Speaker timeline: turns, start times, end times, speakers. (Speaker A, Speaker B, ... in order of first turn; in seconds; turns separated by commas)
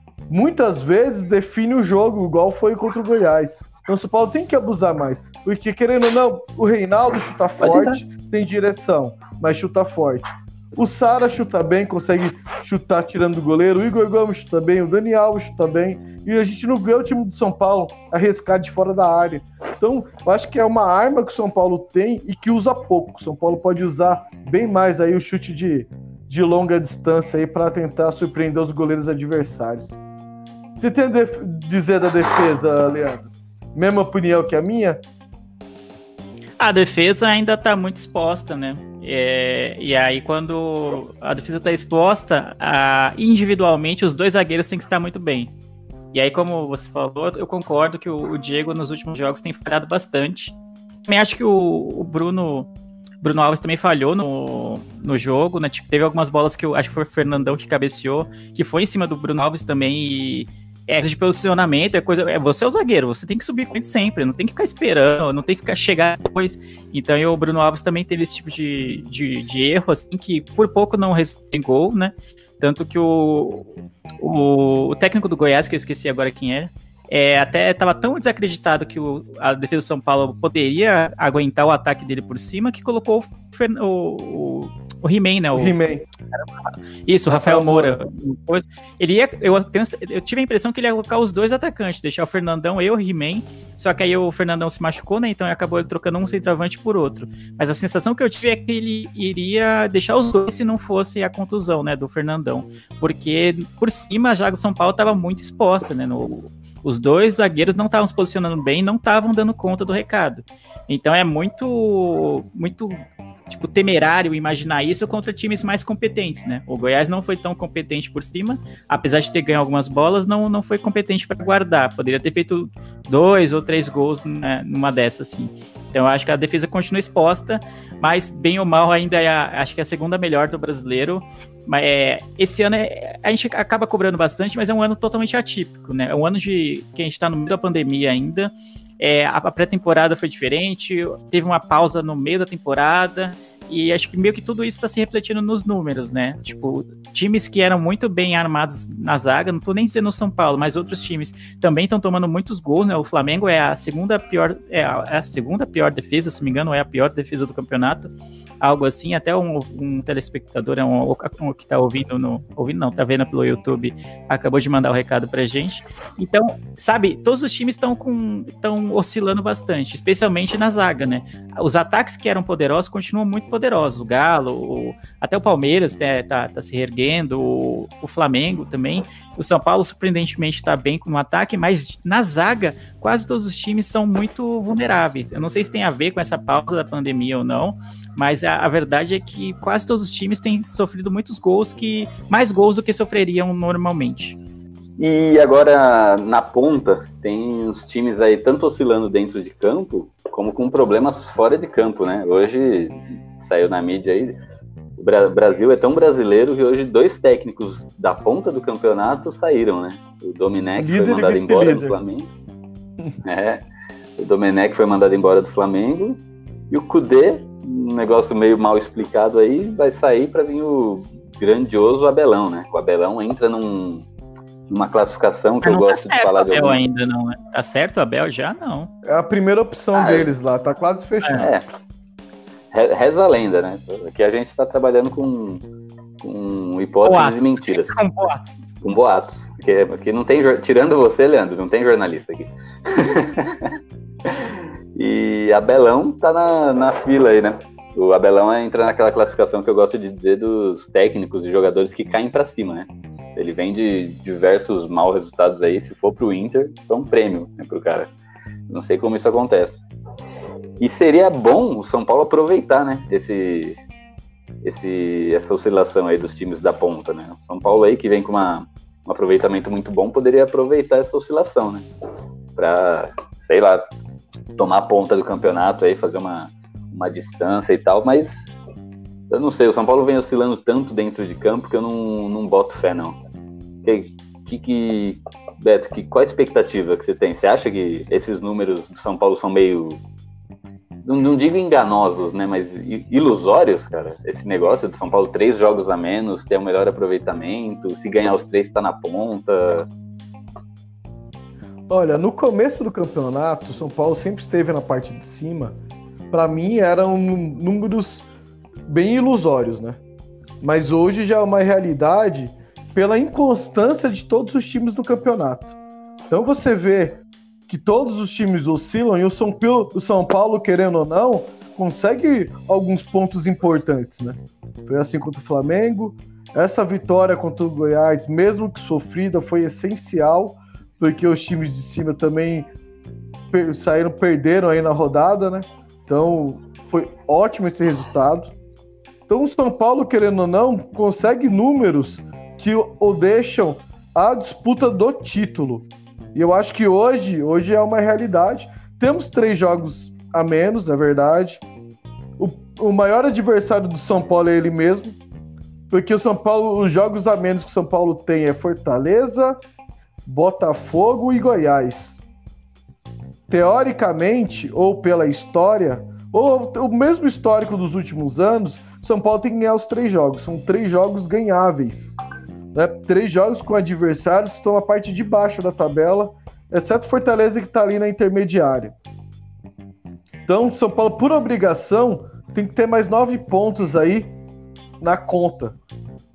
Speaker A: 0.3-29.9, Speaker B: 7.6-8.0, Speaker A: 30.8-35.0, Speaker C: 36.6-45.5, Speaker C: 46.1-50.5, Speaker C: 51.1-52.7, Speaker C: 53.2-73.7, Speaker C: 74.2-85.7, Speaker A: 85.5-86.0, Speaker C: 87.0-194.4, Speaker A: 87.3-87.9, Speaker B: 195.0-204.4, Speaker B: 205.0-212.3, Speaker A: 210.8-211.9, Speaker B: 213.2-213.6, Speaker B: 214.2-224.1, Speaker B: 224.7-226.8, Speaker C: 225.6-228.9, Speaker A: 229.0-231.5, Speaker B: 229.9-230.3, Speaker B: 231.3-231.6, Speaker B: 232.7-235.6, Speaker B: 236.2-237.9, Speaker C: 237.0-238.6, Speaker B: 238.8-243.7, Speaker B: 244.2-258.1, Speaker B: 258.7-259.8, Speaker B: 260.8-263.8, Speaker B: 264.6-271.9, Speaker B: 272.6-273.8, Speaker B: 274.6-278.6, Speaker B: 279.3-283.2, Speaker B: 283.8-290.0, Speaker B: 291.0-299.9, Speaker A: 301.9-305.8, Speaker A: 306.3-308.3, Speaker A: 308.9-310.0, Speaker A: 310.6-315.8, Speaker A: 316.3-332.7, Speaker A: 333.5-338.5, Speaker A: 339.3-351.6, Speaker A: 352.4-355.2, Speaker A: 355.9-359.6, Speaker A: 360.2-362.2, Speaker A: 363.5-372.2, Speaker A: 372.7-378.9, Speaker A: 380.4-384.3, Speaker A: 385.0-385.8